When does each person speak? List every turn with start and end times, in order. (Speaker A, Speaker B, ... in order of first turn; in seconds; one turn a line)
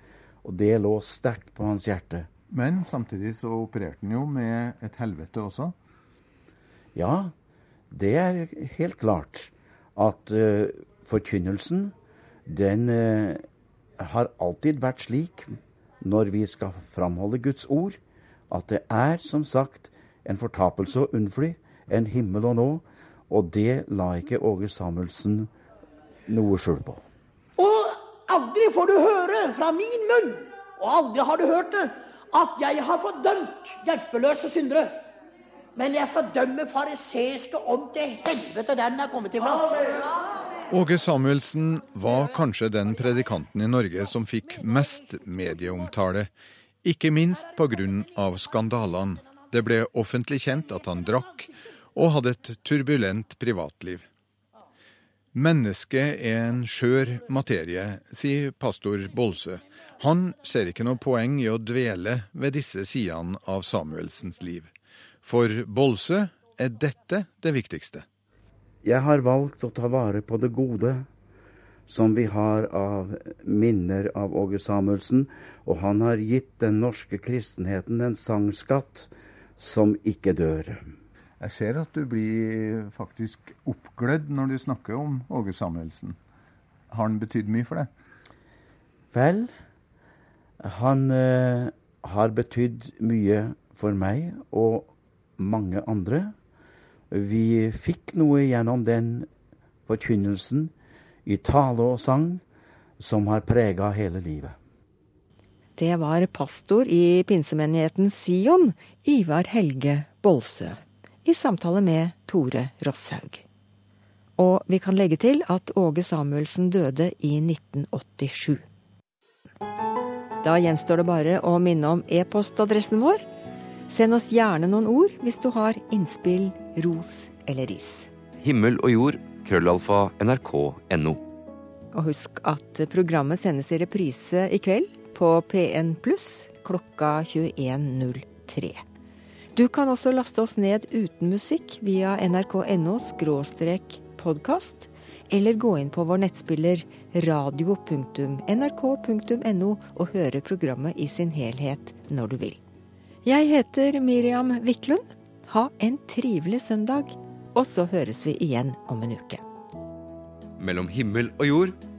Speaker A: 0.4-2.3
Speaker B: 2.5-5.7
Speaker A: 6.9-7.3
Speaker A: 7.9-11.9
Speaker A: 12.5-13.4
Speaker A: 14.0-15.5
Speaker A: 16.0-18.0
Speaker A: 18.5-25.5
Speaker A: 26.3-27.0
Speaker C: 27.6-35.0
Speaker C: 35.8-39.8
Speaker D: 40.7-46.3
Speaker D: 46.8-54.0
Speaker D: 55.3-64.7
Speaker D: 65.2-68.0
Speaker A: 68.8-71.1
Speaker A: 71.9-80.8
Speaker B: 81.4-86.2
Speaker B: 86.9-87.9
Speaker A: 89.1-89.5
Speaker A: 90.6-96.3
Speaker A: 97.1-99.3
Speaker A: 99.9-100.7
Speaker A: 101.2-102.4
Speaker A: 103.0-104.5
Speaker E: 105.8-113.4
Speaker E: 114.4-118.6
Speaker E: 120.4-123.2
Speaker E: 123.9-128.1
Speaker F: 128.4-131.2
Speaker E: 131.9-138.8
Speaker E: 139.5-152.6
Speaker E: 153.2-159.4
Speaker F: 160.6-161.8